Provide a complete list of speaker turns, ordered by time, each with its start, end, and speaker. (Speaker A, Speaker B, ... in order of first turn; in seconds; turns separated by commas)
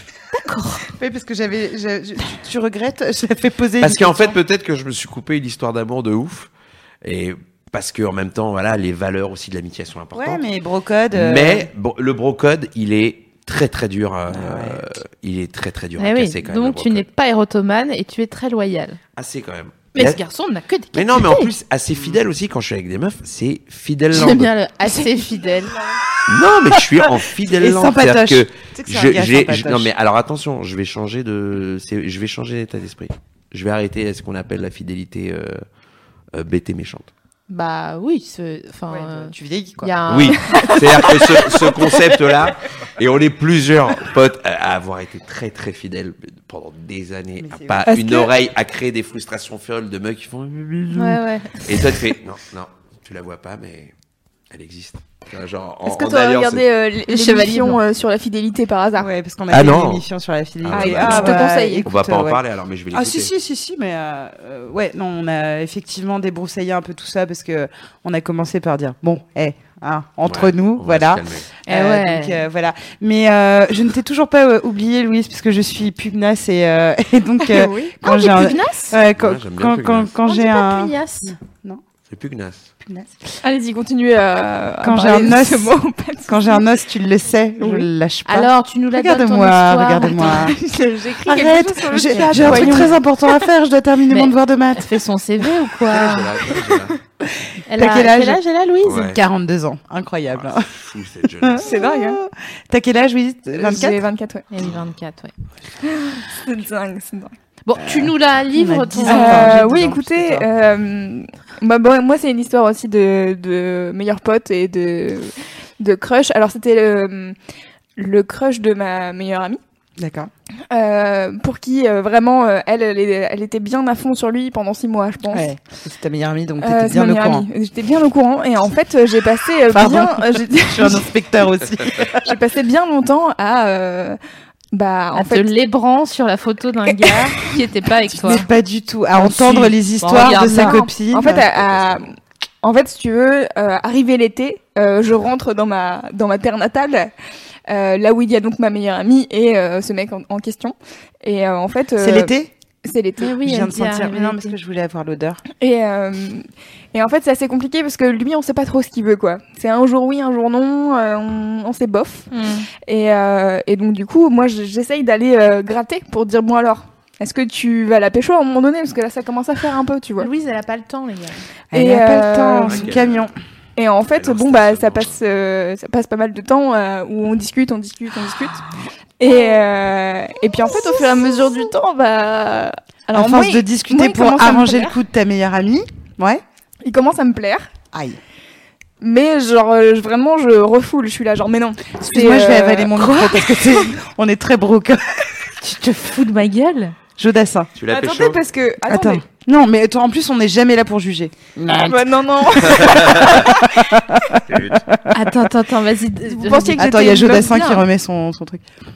Speaker A: 0.3-0.9, Speaker B: 0.9-4.4, Speaker C: 3.8-6.5, Speaker C: 7.0-10.4, Speaker B: 10.1-11.7, Speaker C: 11.1-17.1, Speaker B: 14.3-14.8, Speaker A: 16.0-19.0, Speaker C: 19.2-20.2, Speaker A: 19.9-21.5, Speaker C: 20.9-24.5, Speaker A: 24.1-25.8, Speaker C: 26.3-35.6, Speaker B: 26.9-29.9, Speaker C: 36.3-37.1, Speaker A: 37.5-40.6, Speaker B: 38.9-40.3, Speaker C: 40.1-53.9, Speaker D: 40.5-40.8, Speaker B: 47.4-47.9, Speaker D: 47.9-48.3, Speaker A: 50.9-51.8, Speaker C: 54.5-56.7, Speaker D: 55.9-59.1, Speaker A: 57.1-57.8, Speaker B: 59.0-62.4, Speaker C: 59.5-60.1, Speaker C: 60.6-63.3, Speaker D: 60.7-61.9, Speaker B: 62.9-81.8, Speaker C: 70.2-71.5, Speaker A: 71.7-72.4, Speaker D: 77.5-77.9, Speaker A: 78.0-79.0, Speaker C: 79.2-80.2, Speaker A: 80.3-81.4, Speaker C: 82.1-82.7, Speaker B: 82.8-83.2, Speaker D: 83.4-86.6, Speaker B: 84.8-85.8, Speaker B: 86.3-90.6, Speaker D: 87.6-87.9, Speaker A: 88.3-90.5, Speaker D: 90.2-93.4, Speaker B: 91.2-95.5, Speaker A: 92.1-92.9, Speaker C: 92.3-92.8, Speaker A: 94.1-96.3, Speaker C: 95.9-97.0, Speaker B: 97.2-100.7, Speaker A: 97.7-99.2, Speaker C: 98.8-99.2, Speaker C: 100.3-101.7, Speaker B: 101.4-104.0, Speaker D: 101.6-102.2, Speaker D: 103.6-104.5, Speaker A: 104.5-105.3, Speaker D: 105.8-107.3, Speaker A: 107.7-109.6, Speaker B: 107.8-110.5, Speaker D: 109.0-117.4, Speaker D: 118.0-119.6, Speaker B: 120.0-120.3, Speaker D: 120.7-125.5, Speaker B: 125.3-127.5, Speaker D: 126.6-131.1, Speaker B: 129.7-132.4, Speaker D: 132.2-134.2, Speaker D: 134.7-135.5, Speaker A: 135.1-138.4, Speaker D: 136.9-137.3, Speaker B: 138.1-141.5, Speaker A: 139.2-140.8, Speaker D: 140.1-147.1, Speaker C: 141.3-142.0, Speaker D: 147.7-152.3, Speaker B: 152.0-152.5, Speaker D: 152.8-153.3, Speaker A: 153.2-154.6, Speaker B: 153.4-155.4, Speaker D: 155.6-162.3, Speaker A: 162.3-162.7, Speaker D: 162.8-170.3, Speaker A: 170.2-171.4, Speaker B: 171.7-173.3, Speaker D: 171.7-172.9, Speaker C: 172.7-173.3, Speaker D: 173.8-178.6, Speaker C: 174.1-175.2, Speaker D: 179.2-185.0, Speaker B: 180.7-181.3, Speaker B: 183.1-186.4, Speaker D: 186.8-187.7, Speaker B: 187.9-188.2, Speaker D: 189.0-193.9, Speaker B: 192.0-196.0, Speaker A: 195.7-197.0, Speaker B: 197.2-197.7, Speaker C: 197.8-198.4, Speaker D: 197.9-199.2, Speaker B: 198.8-205.2, Speaker D: 201.8-203.6, Speaker C: 202.8-203.4, Speaker C: 204.5-204.8, Speaker A: 205.1-207.8, Speaker D: 206.3-207.8, Speaker B: 206.8-208.6